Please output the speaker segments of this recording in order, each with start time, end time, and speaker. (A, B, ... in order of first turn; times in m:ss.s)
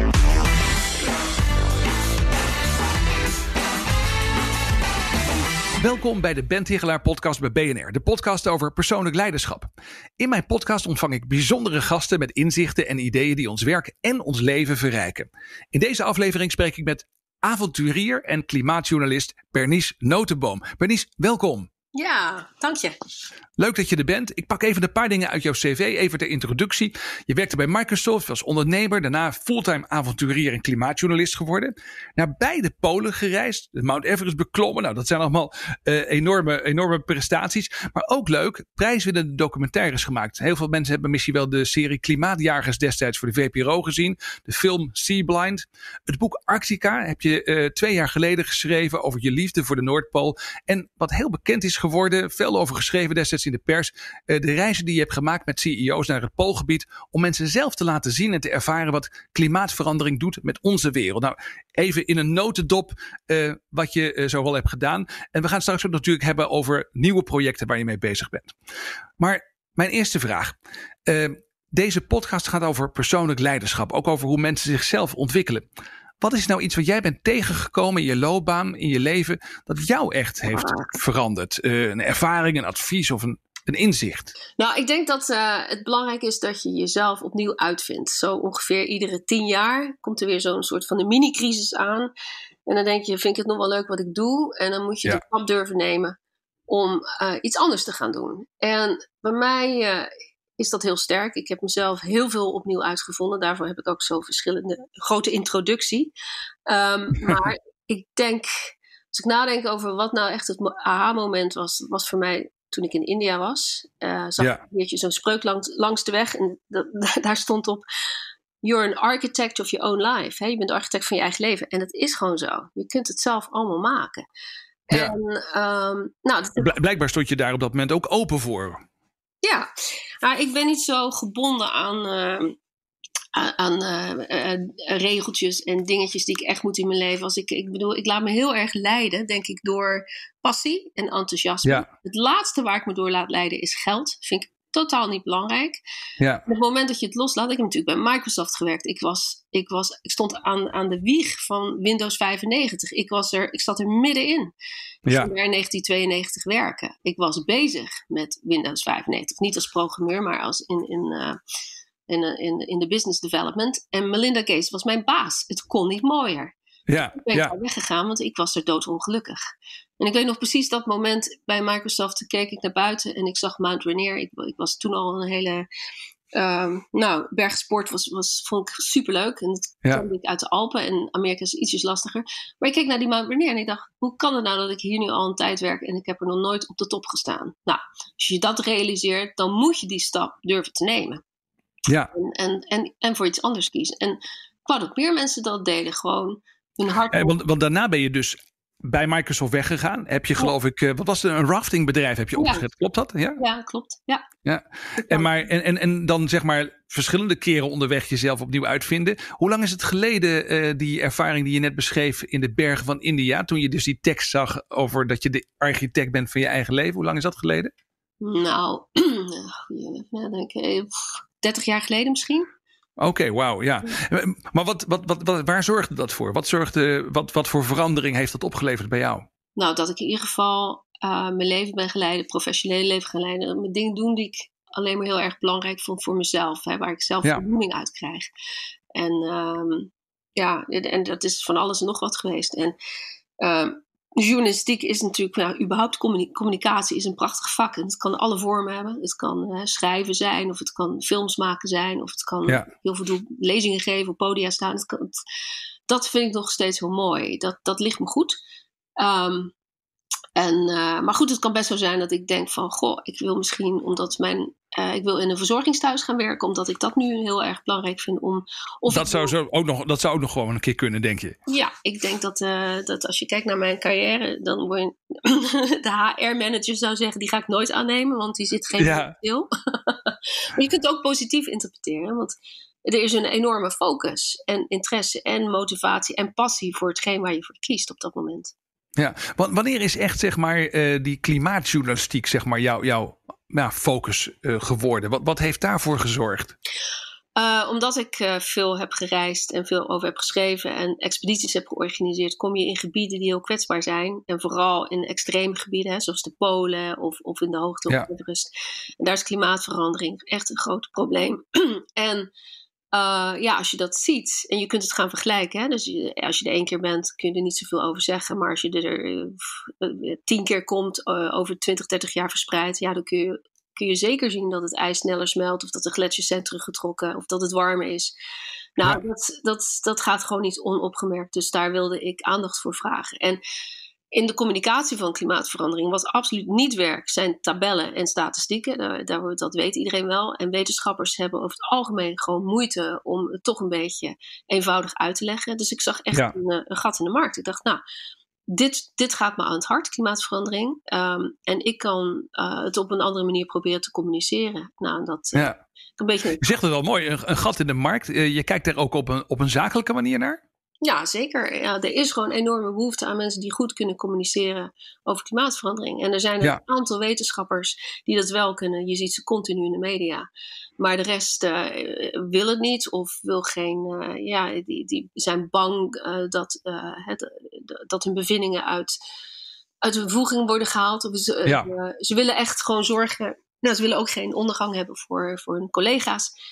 0:05.8-0:21.7 A
0:21.9-0:22.9 B
0:23.6-1:08.5 A
1:09.2-1:10.5 A
1:11.1-1:15.6 A
1:16.2-1:24.3 A
1:20.5-1:20.9 B
1:24.6-1:32.1 B
1:32.7-1:36.1 B
1:36.7-1:46.1 B
1:46.7-1:57.8 B
1:58.6-2:04.2 B
2:04.9-2:06.7 B
2:06.6-2:08.8 A
2:09.4-2:09.7 B
2:10.2-2:12.6 B
2:13.3-2:25.8 B
2:26.2-2:26.4 A
2:26.5-2:34.5 B
2:35.0-2:35.3 A
2:35.1-2:41.4 B
2:42.1-2:46.5 B
2:46.9-2:47.5 A
2:47.1-2:49.4 B
2:50.0-2:55.6 B
2:56.3-3:11.2 B
3:12.1-3:17.4 B
3:17.1-3:23.4 A
3:22.4-3:22.6 B
3:23.4-3:24.2 B
3:24.4-3:37.7 A
3:25.0-3:25.4 B
3:38.2-3:40.8 B
3:41.4-3:42.5 B
3:43.0-3:49.2 A
3:49.6-3:58.3 B
3:58.9-4:02.7 B
4:03.4-4:15.2 B
4:15.9-4:18.4 B
4:19.0-4:19.5 B
4:20.4-4:29.3 B
4:28.9-4:31.4 A
4:31.5-4:42.3 B
4:38.8-4:39.1 A
4:42.8-4:48.5 B
4:49.0-4:56.5 A
4:57.4-5:12.3 B
5:12.9-5:28.1 B
5:28.8-5:33.4 B
5:34.1-5:47.8 B
5:48.5-5:56.5 B
5:56.4-6:00.4 A
6:00.8-6:10.3 B
6:10.8-6:18.9 B
6:19.8-6:26.3 B